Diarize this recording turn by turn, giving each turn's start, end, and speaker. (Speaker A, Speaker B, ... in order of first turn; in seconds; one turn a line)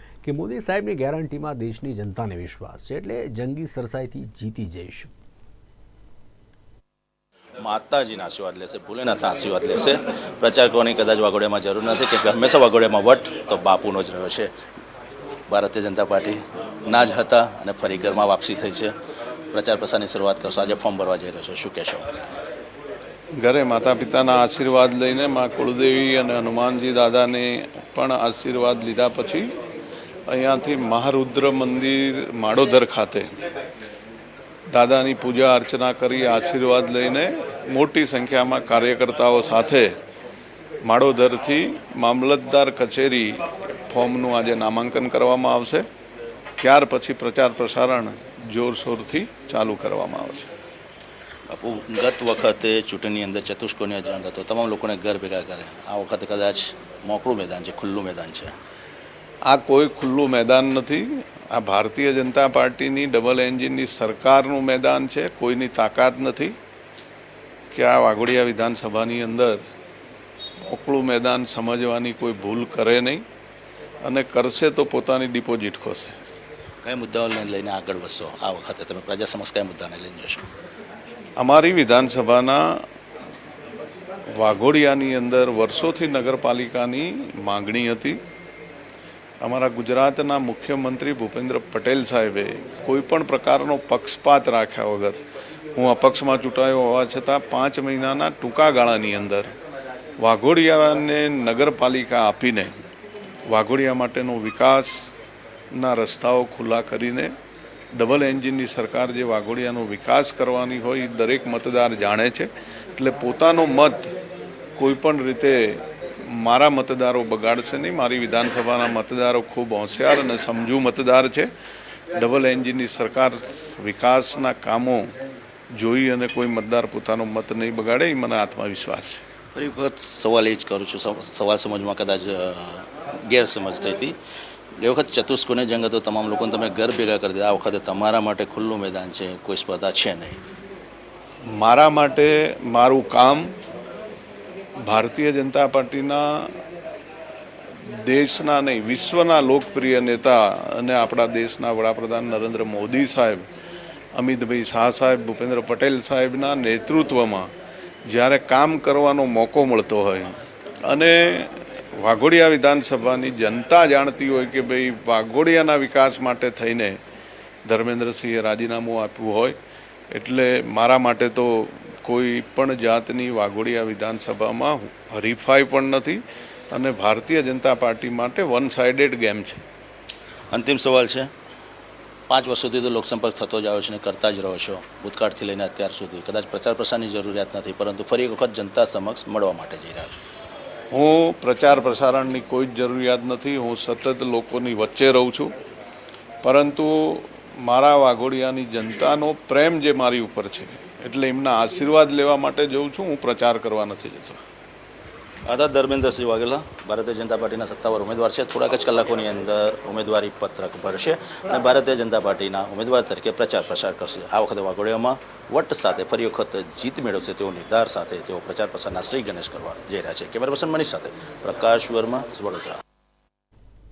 Speaker A: 0.2-5.1
Speaker B: 7.6-14.5
Speaker B: 15.5-18.9
Speaker B: 19.5-22.1
Speaker C: 23.4-29.5
Speaker C: 30.3-33.3
Speaker C: 34.7-39.9
Speaker C: 40.9-45.9
Speaker C: 46.6-50.5
Speaker B: 51.5-58.5
Speaker C: 59.5-66.5
Speaker C: 67.7-69.6
Speaker C: 70.7-73.2
Speaker C: 74.0-76.2
Speaker B: 76.8-80.5
Speaker C: 81.4-82.6
Speaker C: 84.3-88.2
Speaker C: 89.4-95.2
Speaker C: 95.8-99.5
Speaker C: 100.2-102.8
Speaker C: 103.5-105.1
Speaker C: 105.7-107.3
Speaker C: 107.9-114.1
Speaker C: 114.8-121.5
Speaker C: 122.2-125.1
Speaker C: 125.7-129.2
Speaker B: 129.5-134.2
Speaker B: 134.8-140.4
Speaker C: 141.6-143.5
Speaker C: 144.9-146.6
Speaker C: 147.8-153.5
Speaker C: 154.2-157.5
Speaker C: 158.1-167.0
Speaker C: 167.7-169.6
Speaker C: 170.1-179.6
Speaker B: 180.5-181.3
Speaker B: 182.3-190.2
Speaker C: 190.9-195.5
Speaker C: 196.4-204.4
Speaker B: 205.5-222.8